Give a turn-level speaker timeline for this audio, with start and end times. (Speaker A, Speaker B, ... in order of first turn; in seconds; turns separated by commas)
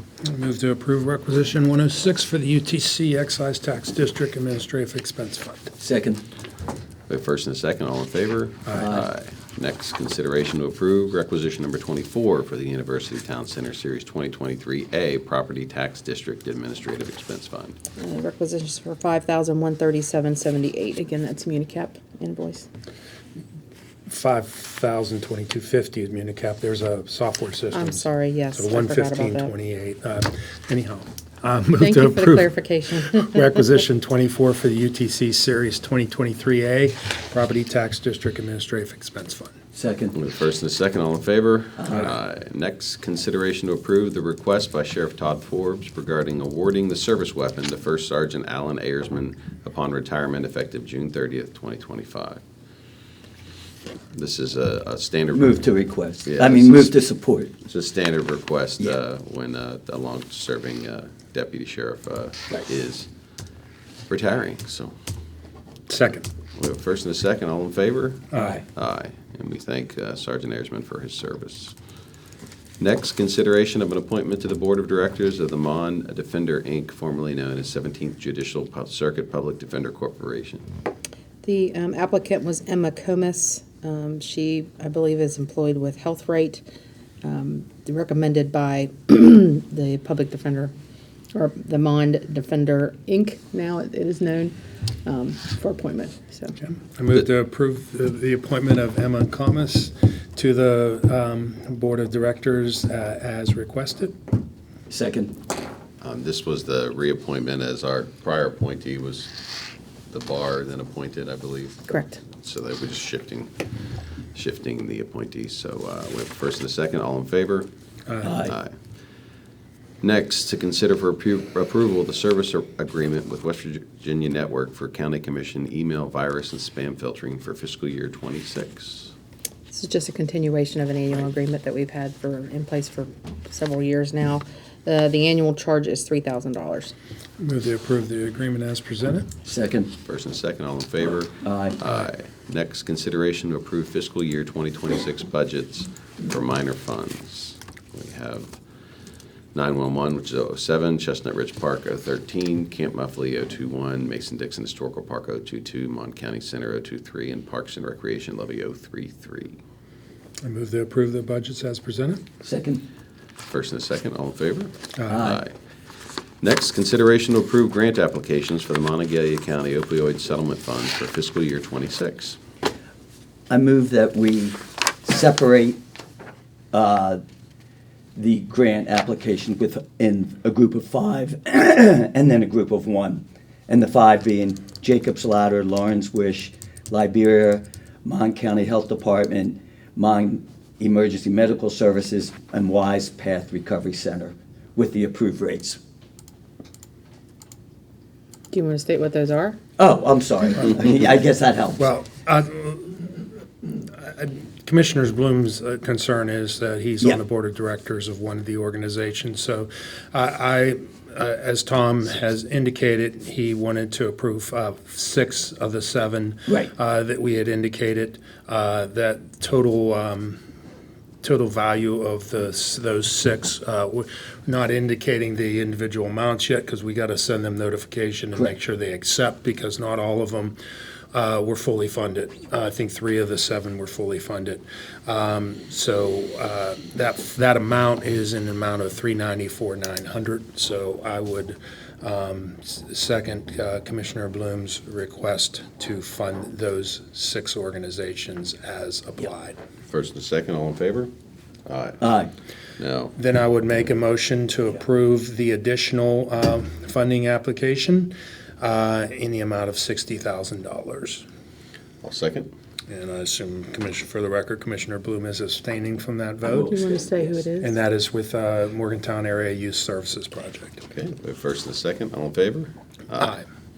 Speaker A: 0.2-5.7, Speaker B: 5.8-6.2, Speaker C: 7.1-17.8, Speaker B: 8.7-9.1, Speaker D: 18.0-22.7, Speaker A: 24.1-32.5, Speaker D: 27.7-29.5, Speaker D: 31.8-33.4, Speaker A: 33.0-39.5, Speaker B: 39.7-40.1, Speaker C: 40.1-52.4, Speaker B: 41.8-42.1, Speaker C: 54.1-55.7, Speaker B: 55.3-57.5, Speaker C: 56.2-56.9, Speaker C: 57.6-63.1, Speaker C: 64.1-64.9, Speaker A: 65.9-66.2, Speaker C: 66.5-71.8, Speaker A: 68.3-68.6, Speaker C: 72.8-80.6, Speaker D: 81.4-86.6, Speaker D: 87.2-90.7, Speaker D: 91.3-96.6, Speaker A: 96.6-104.1, Speaker B: 104.9-105.3, Speaker C: 106.0-109.3, Speaker C: 110.1-113.6, Speaker D: 111.9-112.2, Speaker C: 114.3-117.7, Speaker B: 118.2-118.5, Speaker C: 118.4-118.7, Speaker C: 120.0-129.1, Speaker D: 129.7-136.9, Speaker A: 137.4-139.3, Speaker B: 139.4-139.9, Speaker C: 140.0-148.6, Speaker B: 141.4-141.8, Speaker C: 149.5-159.6, Speaker A: 160.4-162.2, Speaker B: 162.4-162.8, Speaker C: 163.5-165.5, Speaker A: 165.0-165.2, Speaker B: 165.1-165.4, Speaker C: 166.4-172.4, Speaker B: 173.5-175.8, Speaker B: 176.7-177.2, Speaker B: 178.2-195.8, Speaker D: 198.5-199.6, Speaker B: 199.8-201.8, Speaker A: 201.8-220.4, Speaker A: 221.2-230.6, Speaker A: 231.1-249.6, Speaker C: 249.9-251.1, Speaker C: 251.7-252.0, Speaker B: 252.0-252.3, Speaker C: 252.8-253.1, Speaker A: 253.2-261.2, Speaker C: 262.0-262.5, Speaker A: 262.9-266.8, Speaker D: 266.5-267.8, Speaker B: 266.8-267.4, Speaker A: 267.6-270.9, Speaker C: 270.9-273.3